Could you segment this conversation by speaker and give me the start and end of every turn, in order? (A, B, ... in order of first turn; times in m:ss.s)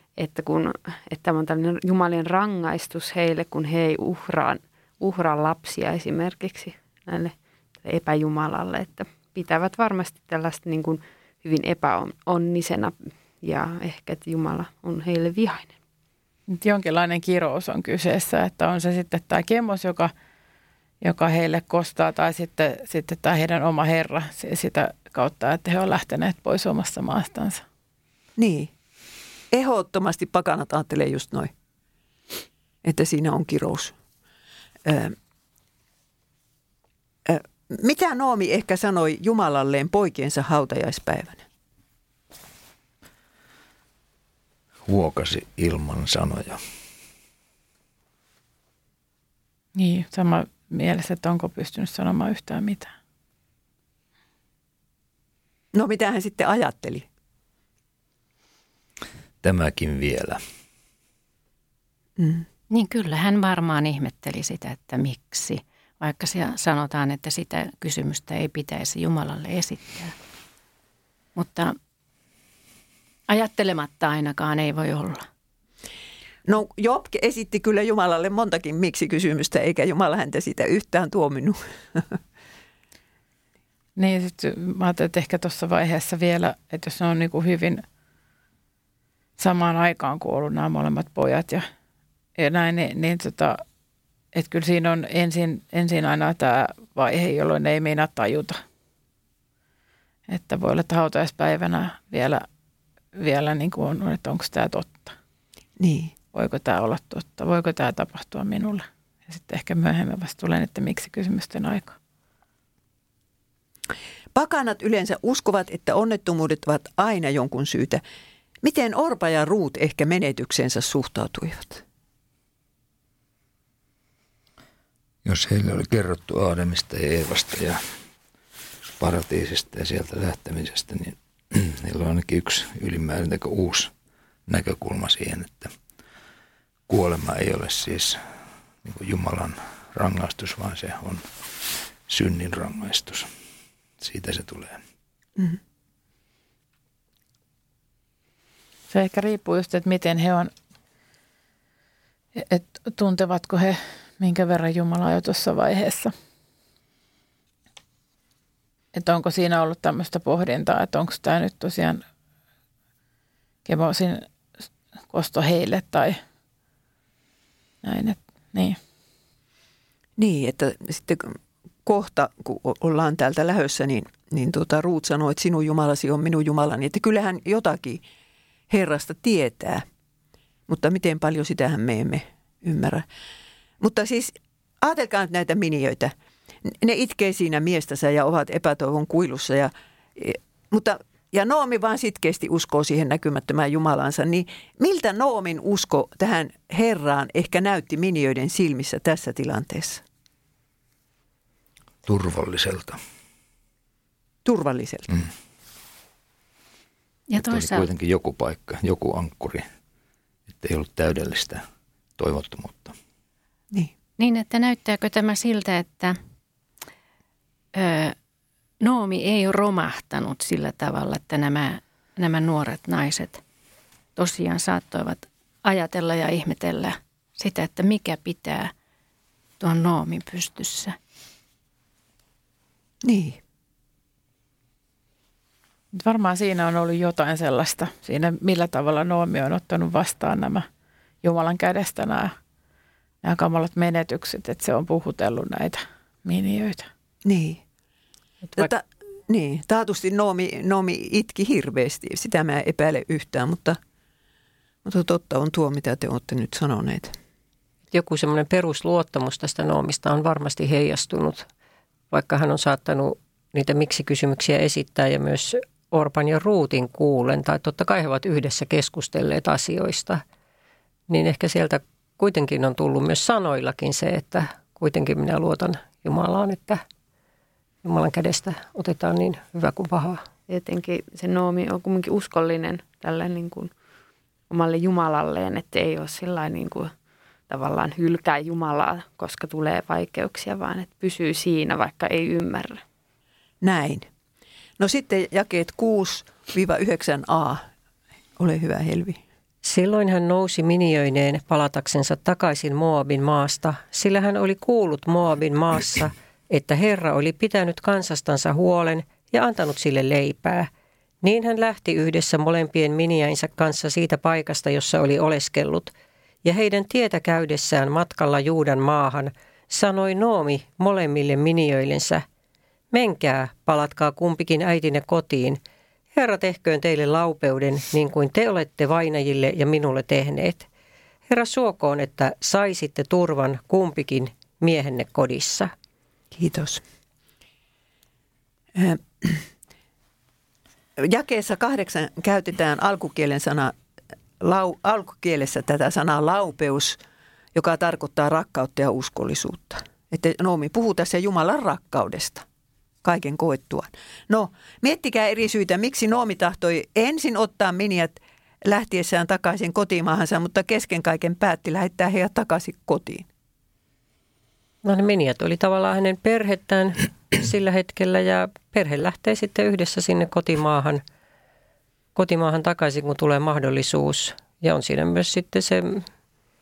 0:00.2-0:15.8 A
0:16.5-0:20.1 B
0:21.0-0:27.6 B
0:28.4-0:28.7 C
0:29.5-0:31.5 C
0:32.8-0:34.0 C
0:34.8-0:35.2 C
0:37.3-0:41.4 C
0:44.9-0:46.6 D
0:49.8-0:52.9 B
0:55.7-0:57.1 C
0:59.4-1:00.4 D
1:02.2-1:02.5 C
1:02.7-1:10.2 E
1:11.4-1:11.8 E
1:13.3-1:15.3 E
1:16.4-1:22.2 C
1:24.0-1:27.8 B
1:29.4-1:31.6 B
1:32.4-1:33.6 B
1:34.3-1:38.6 B
1:40.3-1:42.5 B
1:43.2-1:45.1 B
1:45.8-1:46.2 C
1:46.3-1:52.0 B
1:54.3-1:58.0 C
1:58.6-2:01.8 C
2:05.2-2:07.8 D
2:09.0-2:13.9 D
2:14.5-2:15.7 D
2:16.9-2:18.2 D
2:18.8-2:21.2 D
2:22.1-2:23.3 D
2:24.0-2:24.8 D
2:28.9-2:30.5 B
2:32.4-2:36.1 B
2:38.9-2:42.0 B
2:43.6-2:44.3 B
2:45.1-2:46.2 B
2:47.8-2:48.8 B
2:50.2-2:58.0 C
2:58.7-2:59.9 C
3:00.7-3:03.1 C
3:03.8-3:06.1 C
3:06.6-3:20.0 C
3:22.0-3:23.0 D
3:24.4-3:25.1 C
3:27.3-3:27.9 E
3:27.4-3:29.7 D
3:30.5-3:31.6 D
3:32.2-3:33.0 D
3:34.2-3:36.2 E
3:37.7-3:38.2 E
3:38.8-3:43.4 E
3:44.2-3:48.7 E
3:49.6-3:51.0 E
3:53.0-3:53.4 C
3:55.9-4:00.7 B
4:01.2-4:02.3 B
4:03.2-4:06.9 B
4:07.2-4:07.6 C
4:08.6-4:13.8 C
4:14.8-4:17.2 C
4:17.9-4:21.5 F
4:22.1-4:30.2 F
4:31.1-4:36.8 F
4:37.8-4:40.2 F
4:40.5-4:43.7 A
4:44.5-4:46.9 A
4:47.5-4:52.8 A
4:53.6-4:54.1 C
4:54.8-4:57.7 C
4:58.4-4:59.2 C
4:59.6-5:10.7 F
5:11.2-5:15.9 F
5:16.4-5:22.2 F
5:22.9-5:25.6 F
5:26.1-5:30.7 F
5:31.3-5:35.7 F
5:36.3-5:36.8 C
5:38.8-5:39.4 C
5:41.0-5:43.7 C
5:44.4-5:47.0 C
5:47.6-5:52.4 C
5:53.0-6:03.3 C
6:04.8-6:11.0 F
6:12.2-6:16.0 F